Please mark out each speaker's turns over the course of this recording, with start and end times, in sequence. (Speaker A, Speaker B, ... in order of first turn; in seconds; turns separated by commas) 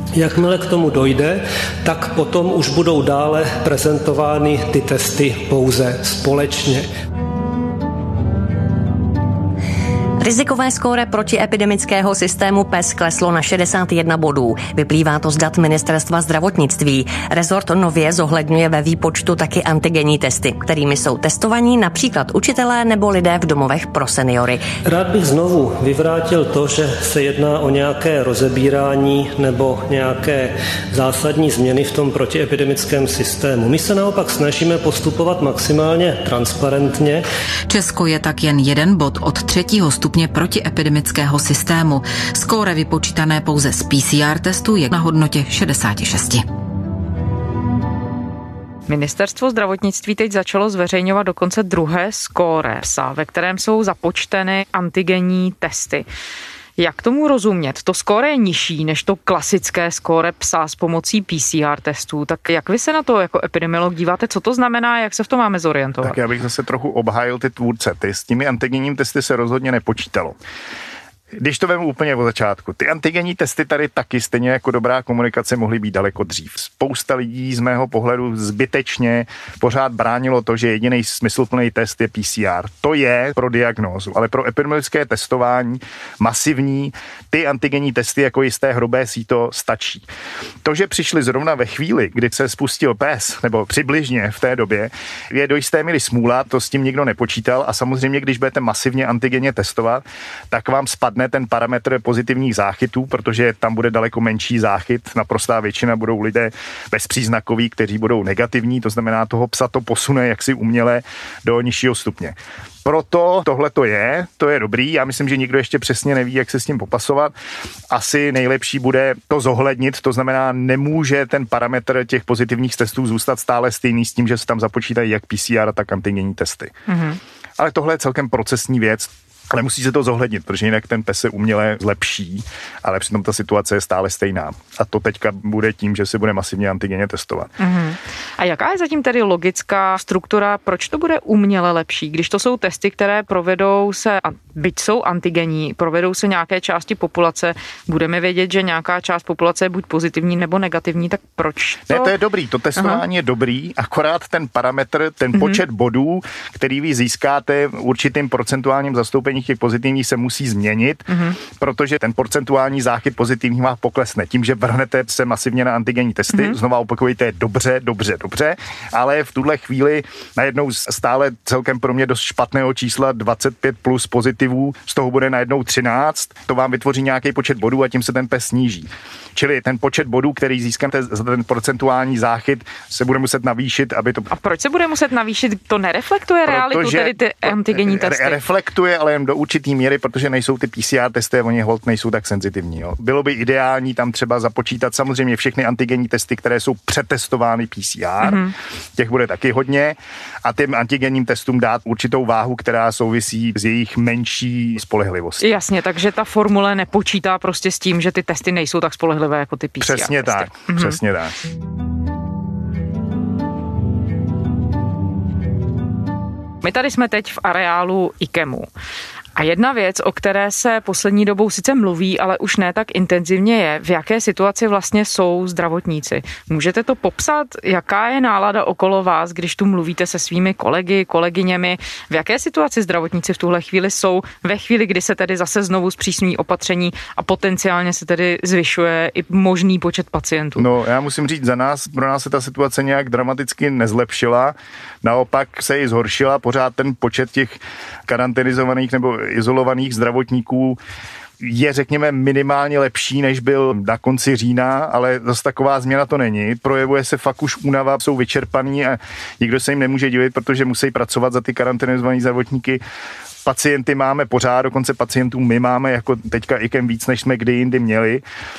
Speaker A: 0.1-6.9, Speaker B: 10.2-24.6, Speaker A: 24.9-37.2, Speaker C: 37.7-46.5, Speaker D: 48.9-56.1, Speaker D: 56.8-66.2, Speaker E: 66.0-70.4, Speaker E: 71.4-90.1, Speaker E: 90.6-117.3, Speaker E: 117.9-126.8, Speaker D: 126.9-127.2, Speaker E: 127.6-137.5, Speaker D: 137.6-152.1, Speaker E: 151.9-184.3, Speaker D: 152.8-153.0, Speaker D: 155.3-155.6, Speaker D: 161.1-161.4, Speaker D: 184.3-188.4, Speaker E: 186.5-198.4, Speaker D: 198.2-198.5, Speaker E: 199.0-205.5, Speaker D: 205.4-211.0, Speaker E: 209.8-211.4, Speaker D: 216.6-218.7, Speaker D: 219.4-240.7, Speaker E: 240.6-250.8, Speaker E: 251.4-262.8, Speaker E: 263.4-268.2